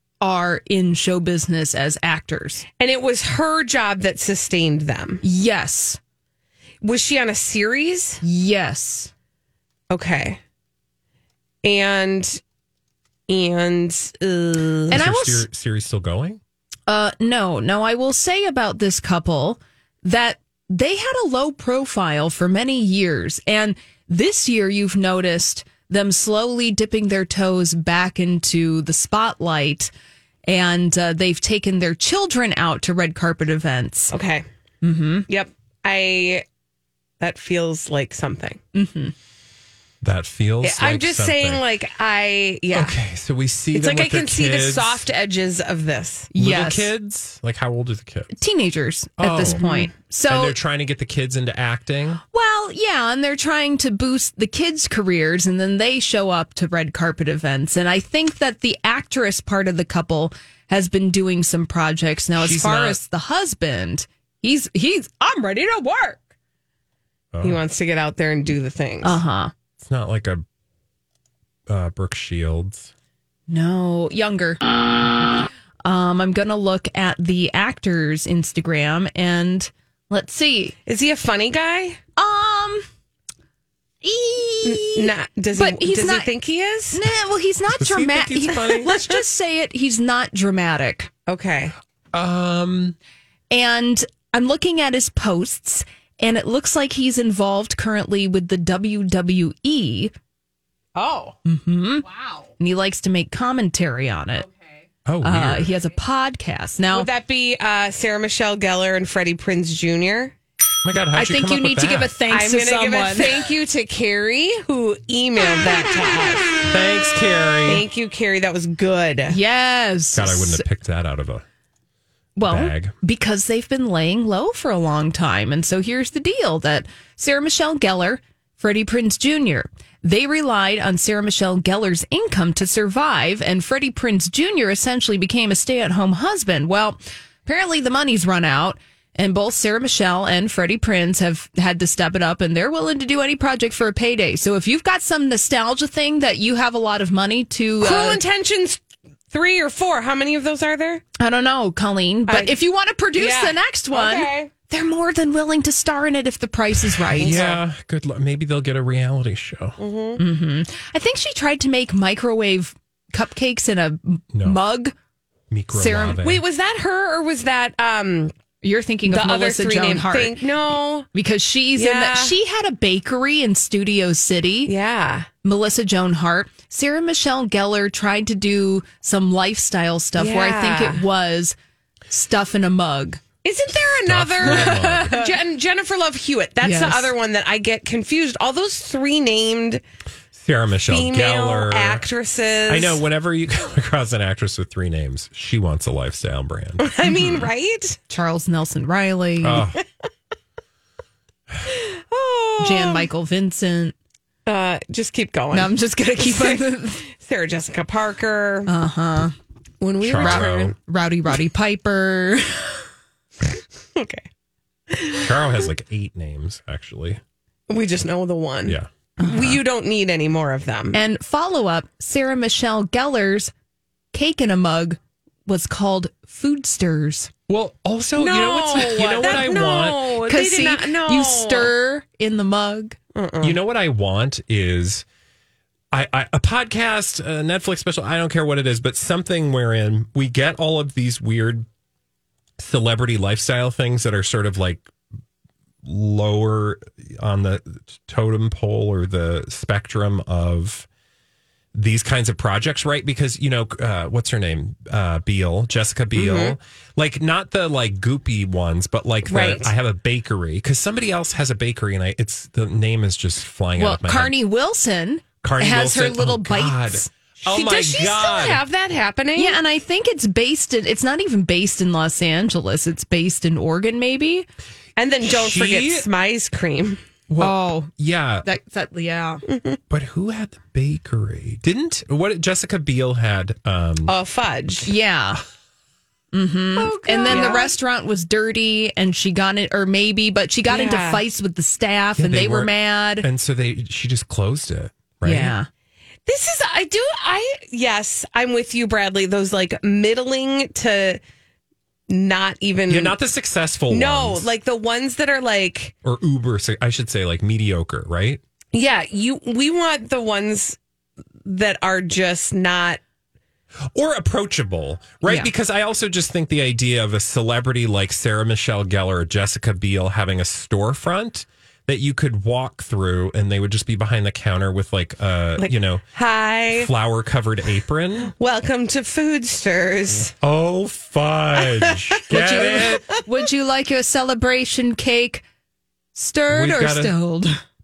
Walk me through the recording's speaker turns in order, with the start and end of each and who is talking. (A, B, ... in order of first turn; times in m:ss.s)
0:00.2-0:02.6 A
0:02.8-0:05.2 B
0:05.2-0:06.0 A
0:06.8-0:08.2 B
0:08.2-0:09.1 A
0:09.9-0:10.4 B
0:11.6-0:12.4 B
0:13.3-0:15.0 B
0:14.9-0:15.5 A
0:14.9-0:16.4 C
0:16.9-0:29.9 A
0:30.5-0:34.1 A
0:34.1-0:34.4 B
0:34.8-0:35.3 A
0:35.3-0:36.4 B
0:37.2-0:38.6 B
0:38.7-0:39.1 A
0:40.0-0:41.6 C
0:40.6-0:42.9 B
0:42.7-0:45.0 C
0:43.7-0:46.3 B
0:46.3-0:46.9 A
0:46.4-0:48.4 C
0:48.3-0:50.6 A
0:49.2-0:49.6 C
0:49.5-0:49.9 B
0:50.3-0:52.2 C
0:52.3-1:06.2 A
1:02.4-1:03.0 C
1:07.3-1:07.6 C
1:07.4-1:09.2 B
1:09.0-1:09.5 A
1:09.8-1:10.4 C
1:11.7-1:12.9 C
1:13.5-1:14.6 A
1:15.8-1:20.8 A
1:20.8-1:22.0 B
1:22.2-1:22.8 A
1:24.0-1:26.3 A
1:24.6-1:27.0 B
1:26.9-1:31.1 A
1:27.8-1:28.9 C
1:31.3-1:31.7 B
1:32.1-1:33.0 C
1:33.5-1:40.1 A
1:40.9-1:41.4 B
1:41.4-1:42.0 A
1:42.1-1:42.4 B
1:42.6-1:44.4 A
1:45.0-1:45.7 C
1:45.2-1:47.1 A
1:46.9-1:50.3 B
1:50.8-1:52.2 C
1:51.1-1:53.4 A
1:52.3-1:56.6 B
1:56.7-1:57.8 C
1:57.6-1:59.4 B
1:59.3-2:00.6 A
2:00.1-2:01.4 C
2:02.4-2:28.2 A
2:02.4-2:02.9 C
2:27.8-2:28.8 B
2:29.3-2:31.0 B
2:31.2-2:37.4 A
2:32.3-2:32.6 B
2:33.1-2:34.5 B
2:37.1-2:39.8 C
2:37.2-2:37.6 B
2:39.8-2:40.2 B
2:40.2-2:44.9 A
2:44.3-2:44.6 C
2:45.5-2:46.4 C
2:45.7-2:46.2 A
2:46.2-2:48.3 B
2:48.6-2:50.4 A
2:49.1-2:51.1 B
2:51.1-2:54.7 A
2:51.7-2:52.4 B
2:54.6-2:55.3 B
2:55.4-3:01.5 A
3:00.2-3:01.0 B
3:02.1-3:03.2 A
3:03.4-3:09.8 B
3:04.0-3:05.1 C
3:04.4-3:05.3 A
3:06.6-3:07.1 A
3:10.3-3:12.0 C
3:10.9-3:13.0 B
3:12.7-3:17.4 C
3:16.8-3:18.0 B
3:18.1-3:19.7 A
3:19.4-3:19.8 C
3:21.7-3:23.1 B
3:22.6-3:23.9 A
3:24.4-3:28.7 B
3:25.5-3:27.0 A
3:28.7-3:29.3 A
3:29.8-3:30.7 B
3:30.0-3:30.7 C
3:30.2-3:32.8 A
3:34.0-3:34.2 B
3:34.9-3:35.4 B
3:35.1-3:37.2 C
3:37.7-3:41.0 B
3:39.2-3:39.6 A
3:40.9-3:43.5 A
3:44.1-3:47.3 A
3:47.5-3:50.1 C
3:48.2-3:51.7 B
3:50.2-3:53.0 A
3:53.1-3:53.6 B
3:53.4-3:55.0 C
3:55.9-4:01.7 C
4:02.6-4:04.9 C
4:05.8-4:10.9 C
4:11.7-4:24.3 C
4:16.1-4:16.6 B
4:19.3-4:19.7 B
4:23.8-4:27.1 A
4:25.4-4:28.6 C
4:27.4-4:29.6 B
4:29.4-4:34.4 A
4:35.0-4:37.0 B
4:35.2-4:36.1 C
4:37.3-4:38.4 C
4:37.4-4:37.9 A
4:38.4-4:39.4 A
4:39.5-4:39.8 B
4:39.9-4:44.1 C
4:44.1-4:44.9 B
4:44.8-4:45.4 A
4:46.3-4:53.2 A
4:46.8-4:47.7 B
4:47.3-4:47.6 C
4:50.7-4:51.2 B
4:52.2-4:55.6 C
4:55.2-4:55.7 A
4:56.3-5:01.2 B
5:02.1-5:03.2 B
5:02.9-5:04.5 C
5:03.9-5:05.9 B
5:06.0-5:08.4 C
5:08.7-5:10.8 B
5:11.4-5:13.0 B
5:13.9-5:26.0 C
5:15.2-5:15.5 A
5:25.6-5:26.9 B
5:26.7-5:28.3 C
5:28.4-5:30.3 B
5:30.4-5:33.2 C
5:31.6-5:33.2 B
5:32.3-5:35.4 A
5:36.1-5:37.6 A
5:36.5-5:37.1 C